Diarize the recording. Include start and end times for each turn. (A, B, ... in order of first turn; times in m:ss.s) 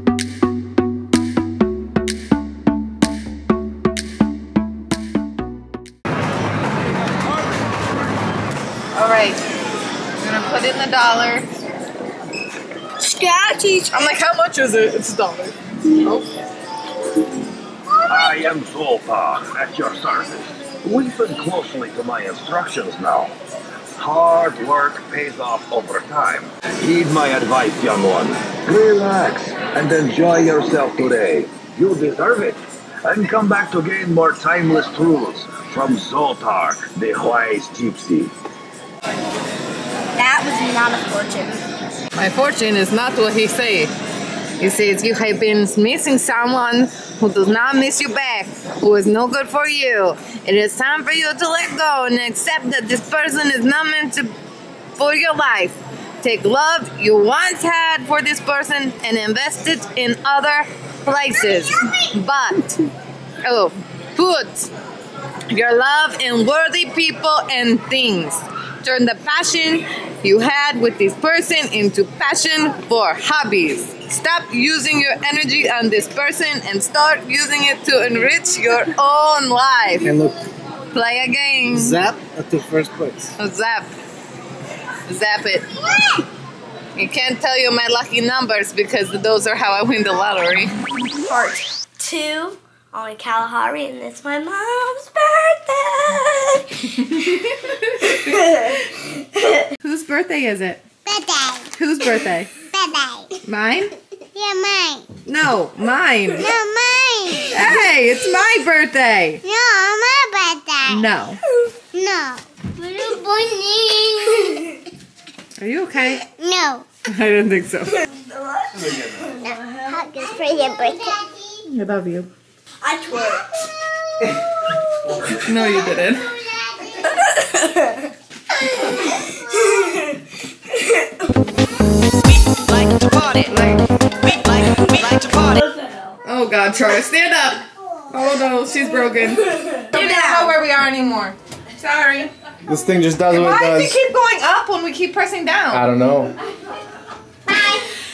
0:08.9-0:09.4 A
0:10.2-0:11.5 A
0:13.0-0:14.1 B
0:13.9-0:16.3 A
0:18.1-0:23.3 C
0:24.0-0:38.3 C
0:40.2-0:41.6 B
0:42.2-0:43.9 A
0:44.6-0:54.3 A
0:54.9-1:02.8 A
1:03.4-1:04.7 A
1:05.5-1:20.2 A
1:20.0-1:20.3 D
1:20.9-1:22.0 A
1:21.6-1:23.4 D
1:23.4-1:23.9 A
1:25.0-1:25.7 A
1:27.0-1:30.7 A
1:31.2-1:37.0 B
1:36.9-1:38.5 A
1:38.0-1:39.6 B
1:39.8-1:40.8 A
1:41.2-1:41.7 E
1:41.7-1:42.5 A
1:42.7-1:43.2 E
1:43.4-1:43.9 A
1:44.4-1:45.0 E
1:45.2-1:46.6 A
1:46.4-1:47.3 E
1:47.4-1:49.4 A
1:49.5-1:50.8 E
1:50.8-1:51.4 A
1:52.0-1:52.4 E
1:52.9-1:54.6 B
1:53.7-1:54.3 E
1:55.6-1:56.2 A
1:56.4-1:56.8 E
1:57.1-1:58.0 A
1:58.1-2:01.3 B
1:58.7-1:59.3 C
2:00.3-2:01.1 E
2:01.6-2:02.3 A
2:02.8-2:03.5 B
2:05.3-2:06.3 A
2:07.5-2:07.9 B
2:09.5-2:10.1 B
2:13.4-2:14.3 A
2:15.0-2:16.1 B
2:16.2-2:22.3 A
2:20.0-2:20.5 B
2:22.6-2:24.0 D
2:23.3-2:25.8 A
2:25.7-2:26.3 D